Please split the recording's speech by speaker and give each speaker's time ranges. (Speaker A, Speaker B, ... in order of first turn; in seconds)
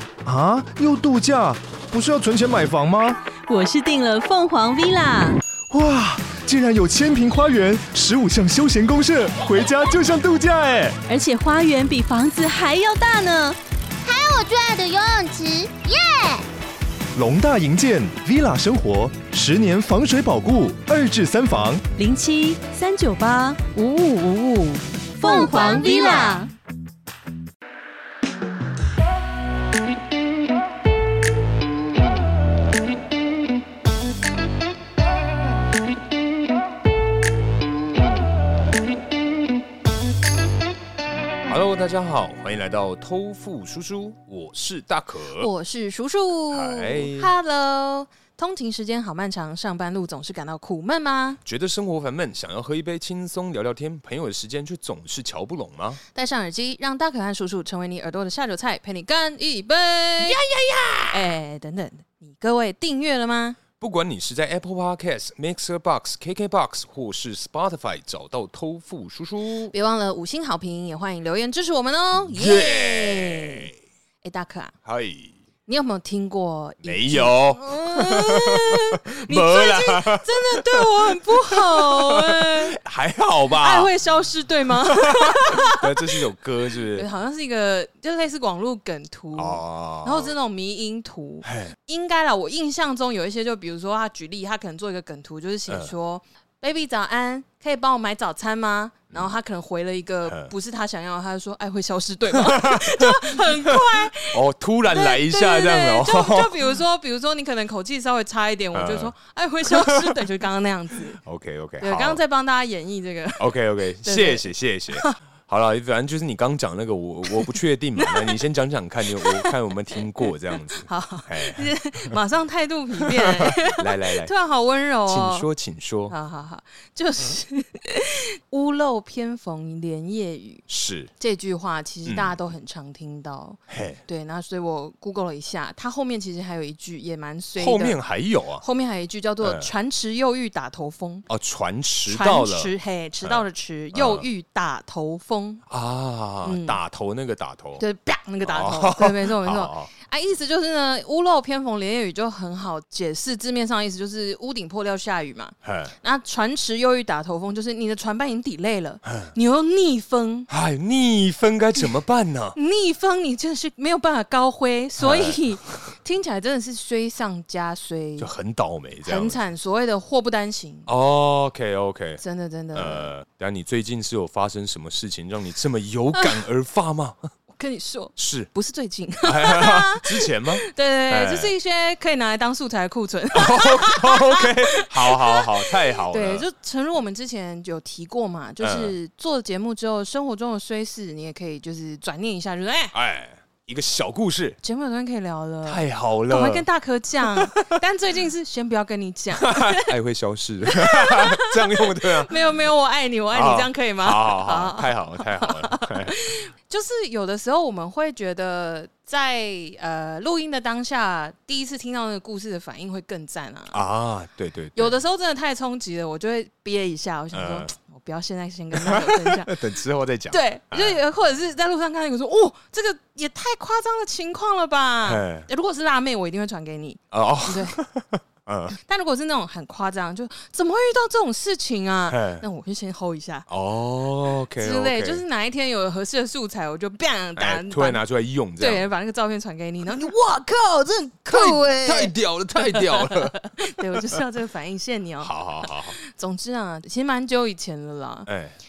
Speaker A: 0.2-3.2, 5.7-11.0, 17.1-21.8
Speaker B: 3.5-5.4, 11.1-13.6, 22.0-26.5
Speaker C: 14.0-16.4, 25.2-26.5
Speaker D: 41.4-45.5, 46.5-47.3, 51.4-56.0, 60.2-61.2, 63.8-69.7, 72.2-73.7, 74.8-75.3, 76.8-83.9, 84.8-87.1, 89.3-90.3, 91.4-91.7, 100.2-100.5, 102.3-106.7, 108.7-109.1, 109.6-110.2, 111.2-112.2, 113.4-121.7, 123.0-124.3, 125.1-126.1, 130.7-131.1, 132.0-132.3, 133.7-134.0, 137.6-138.6, 139.4-139.7, 141.3-142.7, 143.9-144.2, 145.7-147.8, 148.4-149.9, 155.6-155.9, 159.1-159.3, 160.5-162.6, 165.0-165.9, 168.2-169.4, 170.8-172.2, 172.7-177.3, 178.2-178.5, 179.2-181.5, 183.3-186.4, 188.6-188.9, 192.9-194.6, 195.6-196.7, 197.3-197.7, 199.3-202.3, 203.3-206.2, 213.7-215.0, 217.3-217.7, 218.7-221.0, 225.0-225.5, 227.1-228.7, 232.1-232.4, 233.5-235.2, 237.3-238.9, 241.3-243.6, 245.2-246.0, 248.2-248.5
Speaker E: 45.4-51.4, 56.1-60.4, 61.1-63.6, 69.7-73.7, 74.2-74.7, 75.7-82.8, 83.5-86.2, 86.9-111.2, 111.8-115.2, 118.0-118.4, 119.1-119.5, 120.8-125.5, 126.1-130.6, 131.2-138.0, 138.6-141.3, 142.1-145.6, 146.4-146.8, 147.8-160.5, 162.5-168.3, 169.0-170.9, 172.2-173.1, 177.5-192.9, 194.6-199.9, 200.7-213.8, 214.7-219.6, 220.3-227.8, 228.8-233.5, 234.6-238.0, 238.6-248.3